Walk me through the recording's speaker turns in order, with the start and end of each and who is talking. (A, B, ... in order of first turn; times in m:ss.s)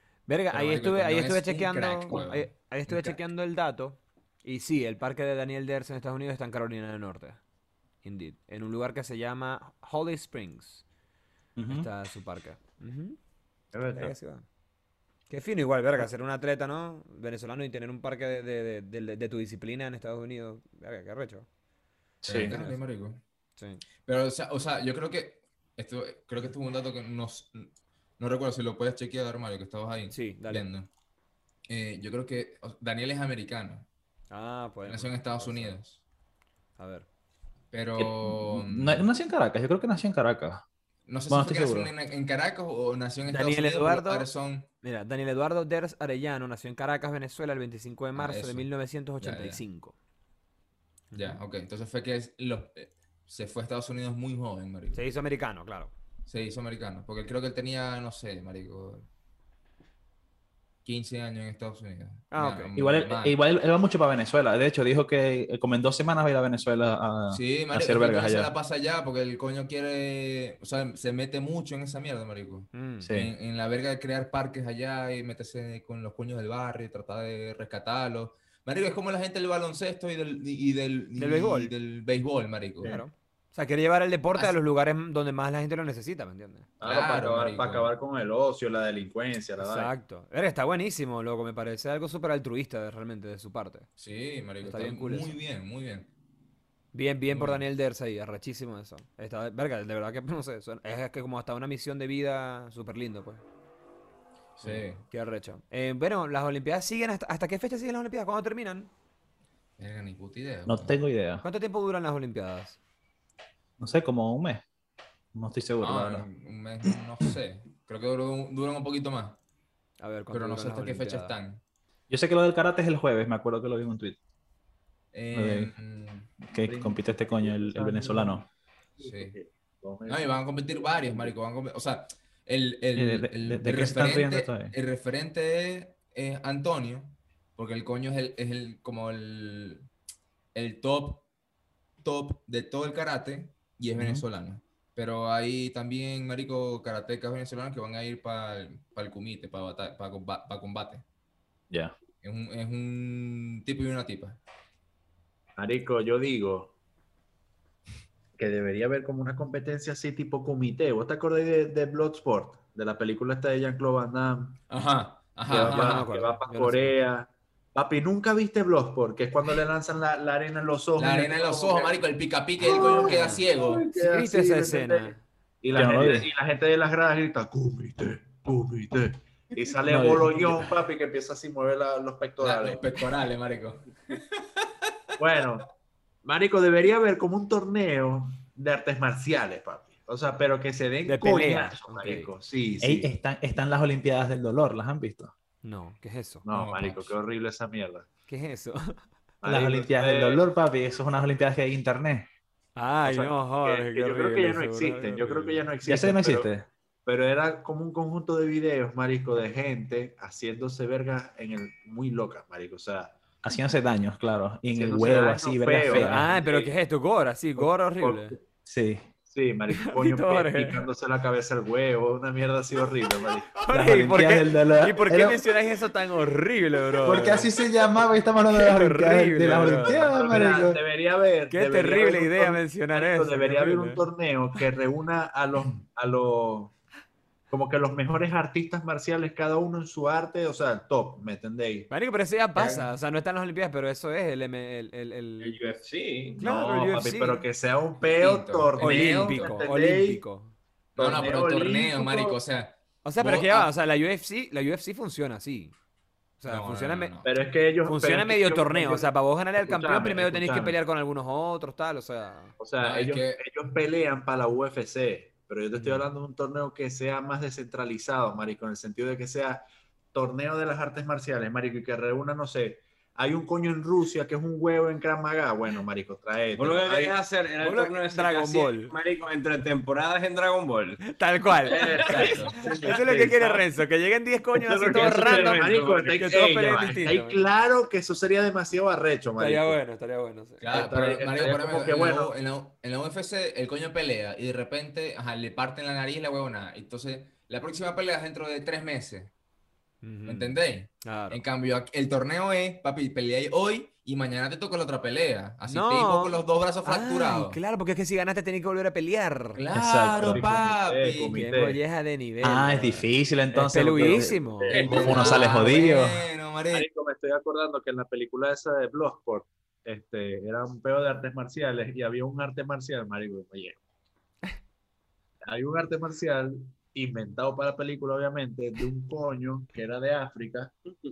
0:00.3-0:07.4 A
0:00.5-0:03.1 B
0:08.0-0:10.8 A
0:11.6-0:11.9 C
0:11.7-0:13.2 A
0:13.7-0:14.1 D
0:13.9-0:14.4 A
0:15.3-0:21.5 A
0:22.2-0:22.6 C
0:22.2-0:23.2 B
0:22.3-0:22.8 A
0:23.6-0:23.8 A
0:24.0-0:30.9 B
0:30.1-0:30.7 A
0:31.7-0:33.9 B
0:34.3-0:35.8 A
0:34.8-0:36.0 B
0:36.8-0:37.1 A
0:37.7-0:39.1 B
0:38.0-0:40.6 C
0:41.0-0:44.7 B
0:41.3-0:41.9 C
0:43.2-0:44.3 A
0:44.8-0:50.0 A
0:48.1-0:48.7 B
0:49.2-0:49.6 B
0:51.1-0:51.4 A
0:51.1-0:55.0 B
0:54.9-0:55.9 A
0:56.2-0:59.1 B
1:00.8-1:03.4 B
1:02.3-1:02.7 A
1:02.7-1:08.5 C
1:07.3-1:23.0 B
1:12.7-1:13.1 A
1:13.0-1:13.3 C
1:21.2-1:21.7 A
1:22.8-1:26.7 A
1:26.8-1:29.9 D
1:26.8-1:27.9 B
1:29.6-1:33.9 A
1:34.0-1:36.1 B
1:34.6-1:35.3 A
1:36.9-1:43.4 A
1:37.3-1:37.6 B
1:44.6-1:45.0 B
1:44.6-1:48.9 A
1:49.8-1:50.9 B
1:50.7-1:51.4 C
1:51.4-1:52.8 A
1:53.8-1:54.6 C
1:55.3-1:56.3 C
1:55.8-1:59.4 B
2:00.0-2:01.4 A
2:00.3-2:01.6 B
2:02.1-2:04.2 C
2:05.1-2:06.3 B
2:05.3-2:05.7 C
2:06.4-2:08.4 C
2:06.6-2:08.4 D
2:09.0-2:11.3 D
2:09.0-2:09.3 B
2:10.1-2:19.9 B
2:13.0-2:14.7 C
2:20.5-2:21.2 B
2:22.0-2:31.0 B
2:24.0-2:24.2 C
2:32.2-2:34.4 B
2:35.6-2:36.7 D
2:38.4-2:44.6 D
2:44.7-2:46.1 B
2:45.4-2:52.0 D
2:45.5-2:47.0 A
2:51.0-2:53.8 B
2:52.6-3:02.9 D
2:53.0-2:55.2 A
2:55.7-2:56.3 C
2:59.8-3:00.7 C
3:02.4-3:04.9 B
3:05.2-3:05.7 D
3:06.2-3:13.1 D
3:11.0-3:12.3 A
3:12.8-3:15.3 C
3:15.6-3:16.4 A
3:16.4-3:18.1 D
3:16.5-3:17.1 B
3:18.3-3:19.0 A
3:19.4-3:20.4 D
3:19.4-3:22.3 C
3:22.7-3:25.7 A
3:23.0-3:26.5 D
3:25.8-3:26.7 C
3:27.0-3:33.2 D
3:33.4-3:36.3 C
3:34.7-3:36.7 D
3:35.9-3:38.4 A
3:37.6-3:38.4 D
3:38.6-3:39.1 C
3:39.2-3:43.6 D
3:39.7-3:40.8 A
3:43.6-3:47.5 A
3:43.7-3:45.4 C
3:47.0-3:50.8 C
3:48.4-3:50.2 A
3:49.4-3:56.7 D
3:51.5-3:54.0 A
3:57.5-4:01.9 D
4:01.9-4:05.6 A
4:02.6-4:02.9 B
4:05.4-4:06.5 E
4:06.4-4:07.4 A
4:06.4-4:10.2 D
4:08.0-4:09.5 B
4:08.8-4:10.5 A
4:11.0-4:13.7 B
4:11.0-4:12.4 D
4:13.0-4:15.7 A
4:16.4-4:17.2 A
4:16.5-4:17.3 B
4:17.2-4:20.8 D
4:17.8-4:22.5 A
4:22.6-4:37.2 D
4:22.8-4:23.4 B
4:25.7-4:26.0 A
4:36.6-4:41.0 E
4:37.6-4:38.9 A
4:41.0-4:45.6 A
4:41.6-4:43.6 E
4:41.6-4:43.0 D
4:42.0-4:42.6 B
4:44.5-4:46.4 E
4:44.8-4:49.8 D
4:46.2-4:47.4 A
4:49.4-4:50.6 A
4:50.6-4:59.3 B
4:50.7-4:52.4 D
5:00.0-5:01.4 A
5:00.2-5:07.6 B
5:05.6-5:09.6 A
5:09.5-5:11.5 B
5:09.7-5:10.4 C
5:10.2-5:11.8 D
5:11.3-5:14.8 A
5:12.4-5:16.3 C
5:14.6-5:15.8 D
5:14.6-5:15.2 E
5:14.7-5:16.8 B
5:16.7-5:23.8 D
5:25.4-5:30.7 D